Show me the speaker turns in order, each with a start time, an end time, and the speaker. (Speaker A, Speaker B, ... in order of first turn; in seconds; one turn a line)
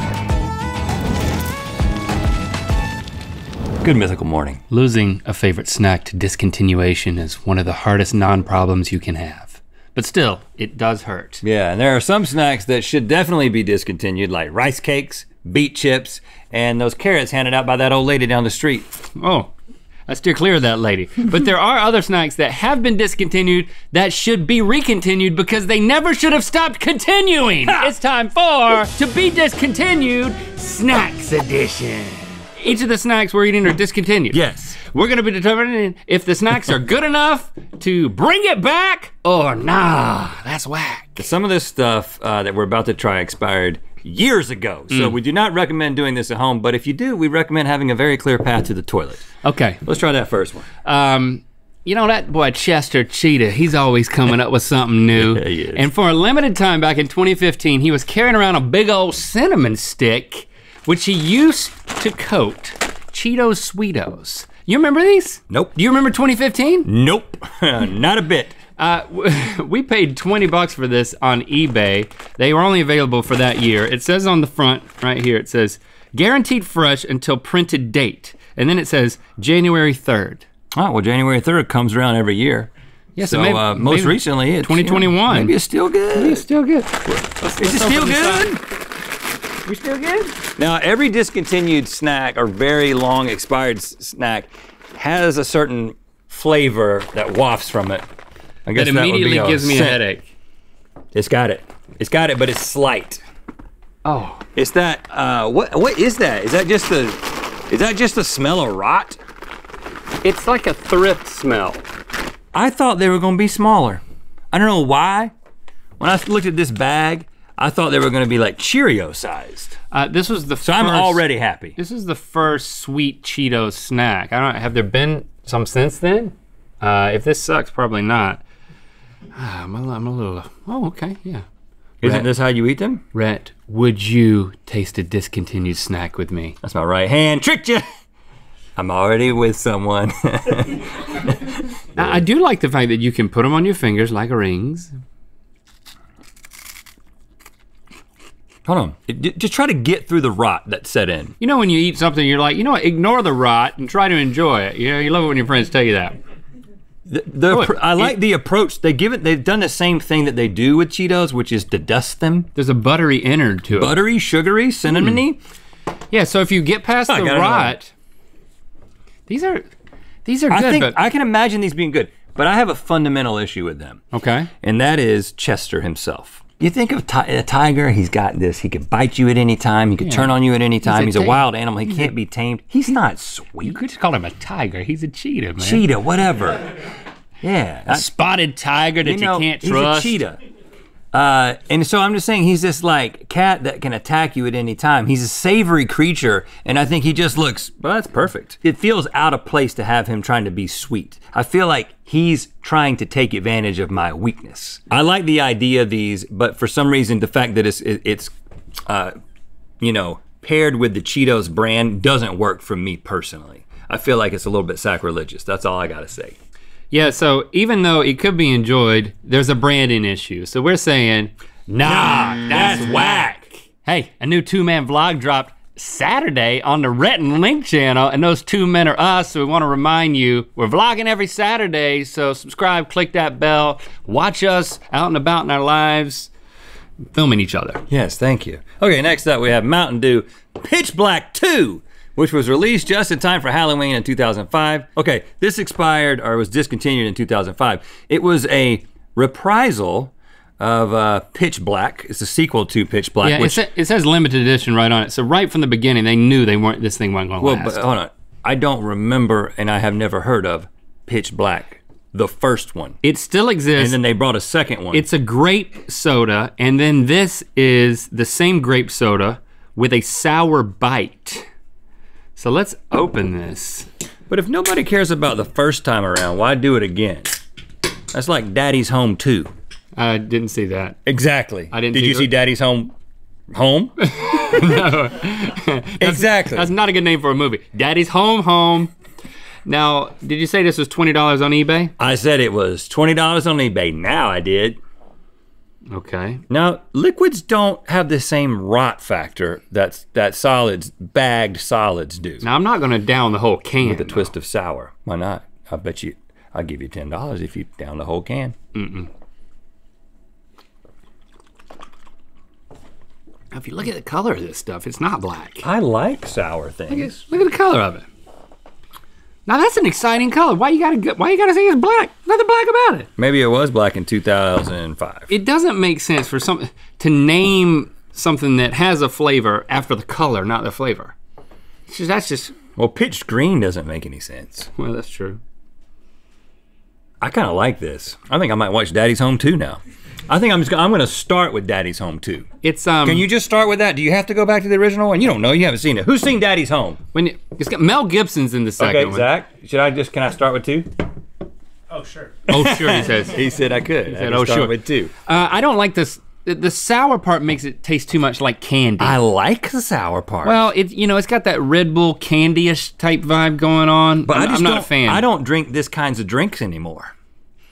Speaker A: 3.8-4.6
Speaker B: 4.7-11.4
Speaker A: 11.4-19.0
Speaker B: 19.2-19.5
Speaker B: 20.1-41.3
Speaker A: 34.3-34.8
Speaker A: 41.2-49.3
Speaker B: 44.9-45.2
Speaker B: 49.4-49.8
Speaker A: 49.9-50.7
Speaker B: 50.9-66.9
Speaker A: 55.2-55.9
Speaker A: 65.5-65.8
Speaker A: 66.8-68.6
Speaker B: 68.8-80.5
Speaker A: 80.7-86.4
Speaker B: 83.2-85.6
Speaker B: 86.1-88.6
Speaker A: 87.6-88.6
Speaker B: 89.7-90.3
Speaker A: 90.3-98.0
Speaker A: 98.7-100.0
Speaker B: 98.8-100.3
Speaker A: 101.1-103.2
Speaker B: 104.0-104.4
Speaker A: 104.5-109.2
Speaker B: 110.2-111.8
Speaker A: 112.5-115.3
Speaker A: 116.0-119.8
Speaker B: 119.9-121.2
Speaker A: 120.6-121.8
Speaker B: 121.8-128.4
Speaker B: 129.4-131.4
Speaker A: 132.0-133.0
Speaker B: 132.0-132.3
Speaker B: 133.1-136.6
Speaker A: 136.6-137.9
Speaker A: 138.8-142.2
Speaker B: 142.0-144.9
Speaker A: 148.7-151.4
Speaker B: 151.4-156.2
Speaker A: 157.1-162.5
Speaker B: 157.5-158.2
Speaker B: 162.6-164.0
Speaker A: 163.7-165.4
Speaker B: 164.9-165.2
Speaker B: 166.1-167.9
Speaker A: 167.1-167.8
Speaker B: 169.3-169.7
Speaker B: 170.2-171.0
Speaker A: 170.5-174.0
Speaker B: 174.1-174.5
Speaker A: 174.6-183.8
Speaker B: 180.0-180.3
Speaker B: 180.8-182.1
Speaker B: 183.6-185.9
Speaker A: 185.6-186.7
Speaker A: 187.4-188.1
Speaker B: 187.9-190.2
Speaker A: 189.0-190.4
Speaker A: 191.1-208.3
Speaker A: 208.9-209.2
Speaker A: 209.8-216.4
Speaker B: 216.9-236.3
Speaker A: 221.8-223.3
Speaker B: 237.1-237.8
Speaker A: 237.9-253.6
Speaker B: 253.2-257.8
Speaker A: 257.4-263.0
Speaker B: 263.0-264.0
Speaker A: 263.8-265.1
Speaker B: 264.9-271.5
Speaker B: 272.4-273.9
Speaker A: 274.3-277.4
Speaker A: 278.1-279.5
Speaker B: 280.0-281.0
Speaker A: 281.1-282.9
Speaker B: 281.7-282.3
Speaker A: 283.5-284.8
Speaker B: 284.1-288.9
Speaker A: 286.0-286.7
Speaker B: 289.7-291.9
Speaker A: 292.0-294.8
Speaker B: 295.9-296.4
Speaker A: 296.5-302.5
Speaker B: 302.4-304.3
Speaker A: 303.8-308.6
Speaker B: 308.8-309.1
Speaker B: 313.5-315.6
Speaker A: 315.6-317.2
Speaker B: 316.9-318.1
Speaker B: 319.5-323.1
Speaker A: 323.2-325.3
Speaker B: 325.3-331.1
Speaker B: 331.9-332.6
Speaker A: 332.8-334.7
Speaker B: 334.8-335.4
Speaker A: 337.2-342.5
Speaker B: 342.6-343.2
Speaker A: 343.0-347.0
Speaker B: 347.1-349.3
Speaker A: 348.8-350.9
Speaker B: 352.2-353.5
Speaker A: 352.5-355.1
Speaker B: 354.0-359.2
Speaker A: 359.0-360.6
Speaker B: 360.4-365.2
Speaker A: 364.3-367.1